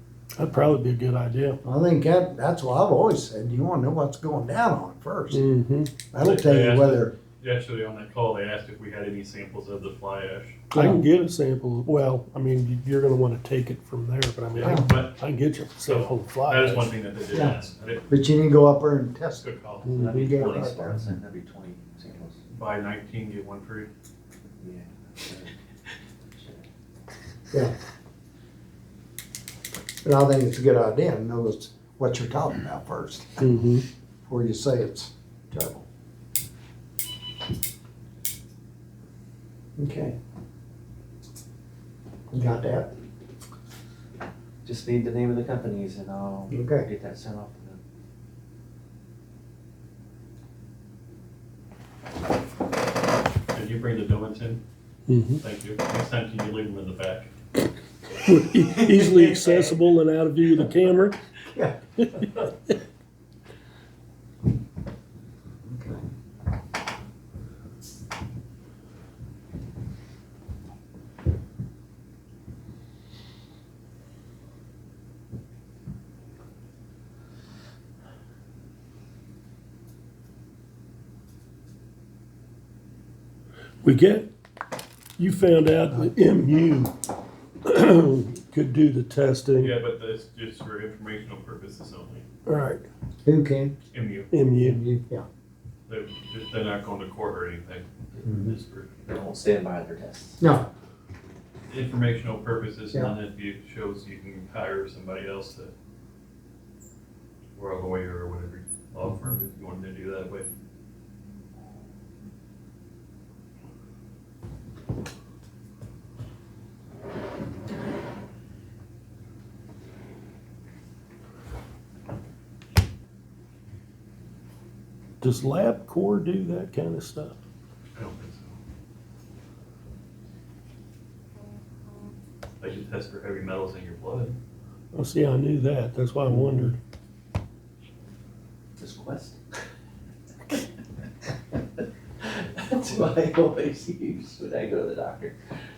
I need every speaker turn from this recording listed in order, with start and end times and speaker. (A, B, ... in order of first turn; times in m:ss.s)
0:00.4-0:01.6 A
0:01.6-0:05.4 B
0:05.3-0:06.0 A
0:06.1-0:07.2 B
0:06.2-0:10.6 C
0:10.7-0:16.9 A
0:10.8-0:11.0 B
0:14.5-0:15.2 C
0:14.6-0:14.9 B
0:15.8-0:18.2 C
0:18.1-0:19.5 B
0:19.4-0:20.7 C
0:19.8-0:20.2 A
0:20.0-0:22.4 D
0:20.1-0:21.0 B
0:22.5-0:23.9 C
0:24.6-0:25.6 D
0:26.3-0:26.7 D
0:30.0-0:33.4 B
0:33.4-0:33.8 A
0:34.2-0:35.8 B
0:39.8-0:40.2 B
0:42.3-0:42.9 B
0:44.6-0:47.8 D
0:46.5-0:46.9 B
0:53.5-0:54.6 C
0:55.1-0:55.4 A
0:55.4-0:57.3 C
0:58.3-1:01.2 A
1:01.5-1:01.8 B
1:02.0-1:02.5 A
1:05.6-1:06.0 B
1:23.8-1:24.3 A
1:25.2-1:26.9 A
1:27.6-1:29.8 A
1:29.6-1:32.2 C
1:32.5-1:32.8 A
1:33.2-1:33.8 B
1:33.9-1:34.3 C
1:34.3-1:34.8 A
1:34.6-1:35.2 B
1:35.9-1:38.9 C
1:38.2-1:38.5 B
1:39.1-1:40.5 D
1:40.4-1:40.7 B
1:41.7-1:45.7 C
1:47.6-1:50.5 C
2:05.2-2:07.4 A
2:08.0-2:08.6 C
2:12.6-2:14.4 C
2:14.9-2:16.8 A
2:18.8-2:19.4 D
2:22.2-2:25.4 D